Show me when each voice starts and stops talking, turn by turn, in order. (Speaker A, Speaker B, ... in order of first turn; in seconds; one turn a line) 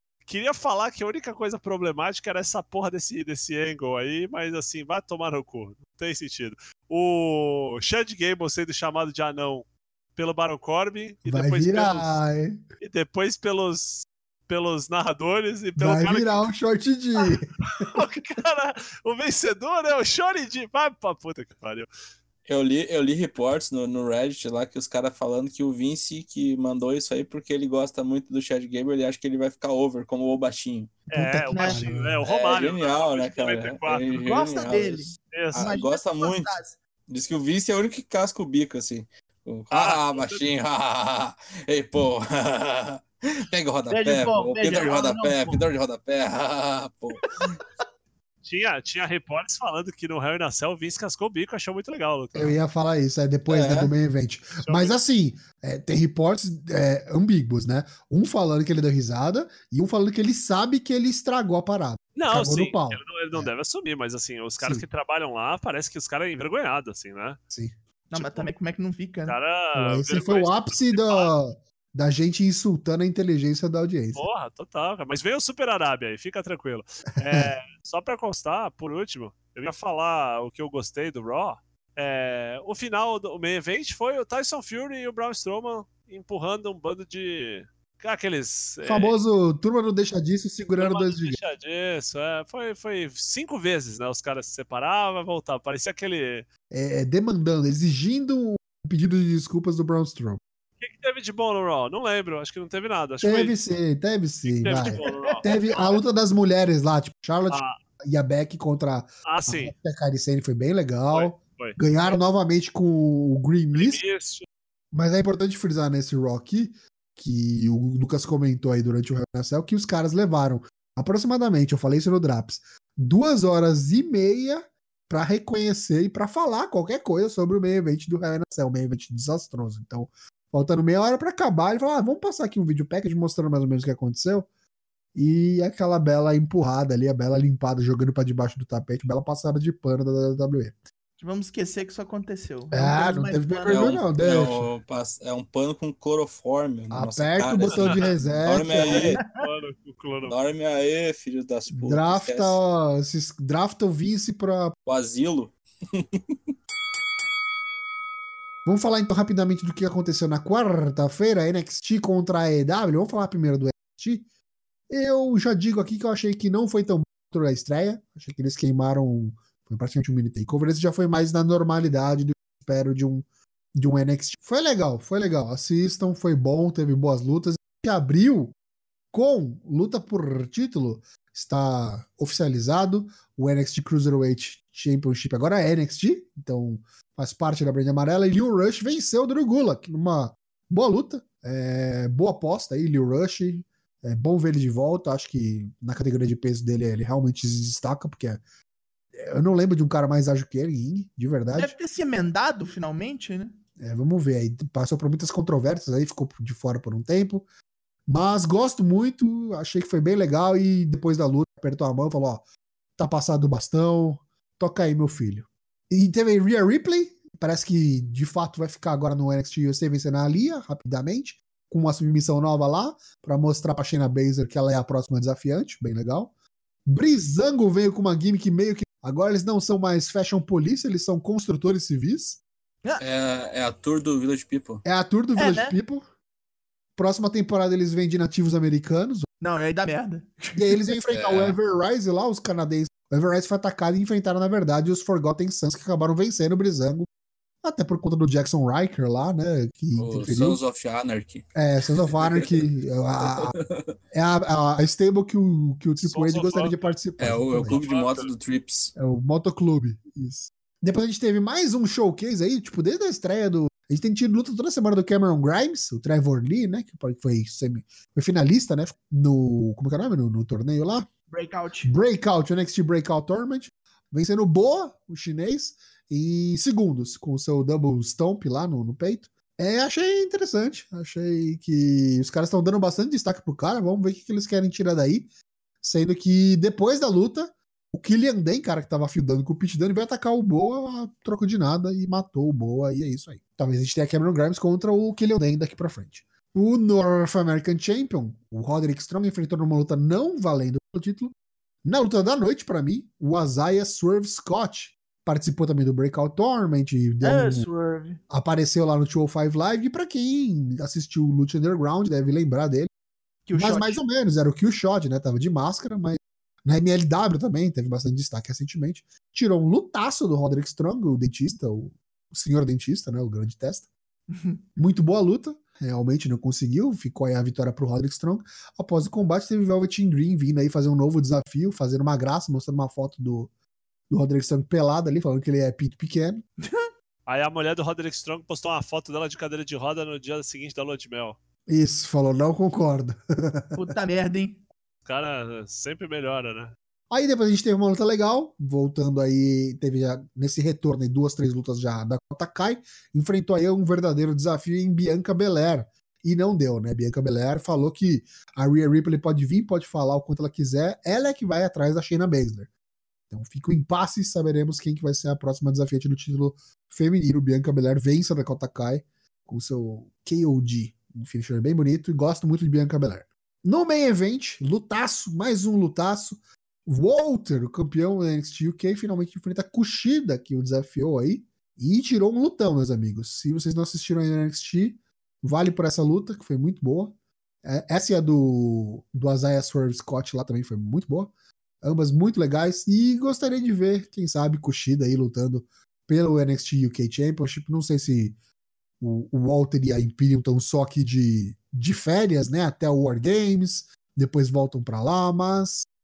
Speaker A: 0.2-12.1
Speaker B: 11.2-12.6
Speaker A: 12.8-16.5
Speaker B: 15.8-17.9
Speaker A: 17.6-21.9
Speaker C: 22.4-30.9
Speaker A: 31.1-34.2
Speaker B: 31.1-32.2
Speaker D: 31.5-31.8
Speaker C: 32.2-36.6
Speaker D: 34.2-36.8
Speaker A: 35.3-35.7
Speaker C: 37.1-47.6
Speaker A: 39.7-40.5
Speaker D: 43.9-45.6
Speaker A: 48.4-52.6
Speaker B: 52.3-63.5
Speaker C: 53.5-53.9
Speaker A: 54.6-55.0
Speaker A: 62.1-67.4
Speaker B: 64.6-64.8
Speaker B: 67.5-68.4
Speaker D: 68.1-69.3
Speaker A: 69.2-71.3
Speaker B: 69.8-74.2
Speaker A: 74.1-89.2
Speaker B: 77.2-77.5
Speaker B: 88.8-91.4
Speaker A: 90.8-96.5
Speaker B: 96.7-100.4
Speaker A: 100.8-103.5
Speaker B: 103.2-114.0
Speaker A: 104.4-106.0
Speaker D: 104.8-105.5
Speaker A: 107.5-107.8
Speaker A: 109.2-109.7
Speaker A: 111.1-112.2
Speaker A: 113.7-114.5
Speaker B: 114.9-134.5
Speaker B: 135.1-140.7
Speaker D: 141.2-143.9
Speaker B: 142.7-144.7
Speaker C: 143.7-149.2
Speaker B: 146.9-149.1
Speaker A: 147.7-148.2
Speaker A: 148.7-150.3
Speaker D: 149.1-149.4
Speaker C: 150.2-152.6
Speaker B: 151.7-154.7
Speaker C: 154.8-156.5
Speaker B: 158.6-164.2
Speaker B: 164.9-178.5
Speaker B: 179.1-198.4
Speaker B: 199.2-201.7
Speaker D: 201.5-203.6
Speaker B: 203.8-207.4
Speaker B: 208.1-212.4
Speaker B: 213.0-226.3
Speaker B: 226.8-232.4
Speaker C: 233.0-234.8
Speaker B: 234.8-236.0
Speaker D: 235.3-235.8
Speaker B: 236.9-239.3
Speaker D: 239.4-240.9
Speaker B: 240.5-247.1
Speaker C: 241.1-241.6
Speaker B: 247.6-250.6
Speaker C: 250.0-252.5
Speaker B: 251.5-253.6
Speaker C: 253.2-253.9
Speaker B: 254.1-257.8
Speaker A: 256.0-256.9
Speaker C: 257.2-258.9
Speaker A: 257.7-258.3
Speaker B: 258.9-271.1
Speaker D: 271.3-271.9
Speaker B: 271.8-285.3
Speaker B: 285.8-307.7
Speaker D: 307.2-308.2
Speaker B: 308.3-312.9
Speaker D: 313.4-314.0
Speaker B: 313.6-323.9
Speaker D: 324.3-324.6
Speaker B: 324.8-333.5
Speaker B: 334.1-336.4
Speaker A: 337.3-341.4
Speaker B: 341.7-343.8
Speaker D: 343.8-344.6
Speaker A: 345.0-346.7
Speaker B: 347.1-362.7
Speaker B: 363.3-398.3
Speaker B: 399.0-405.9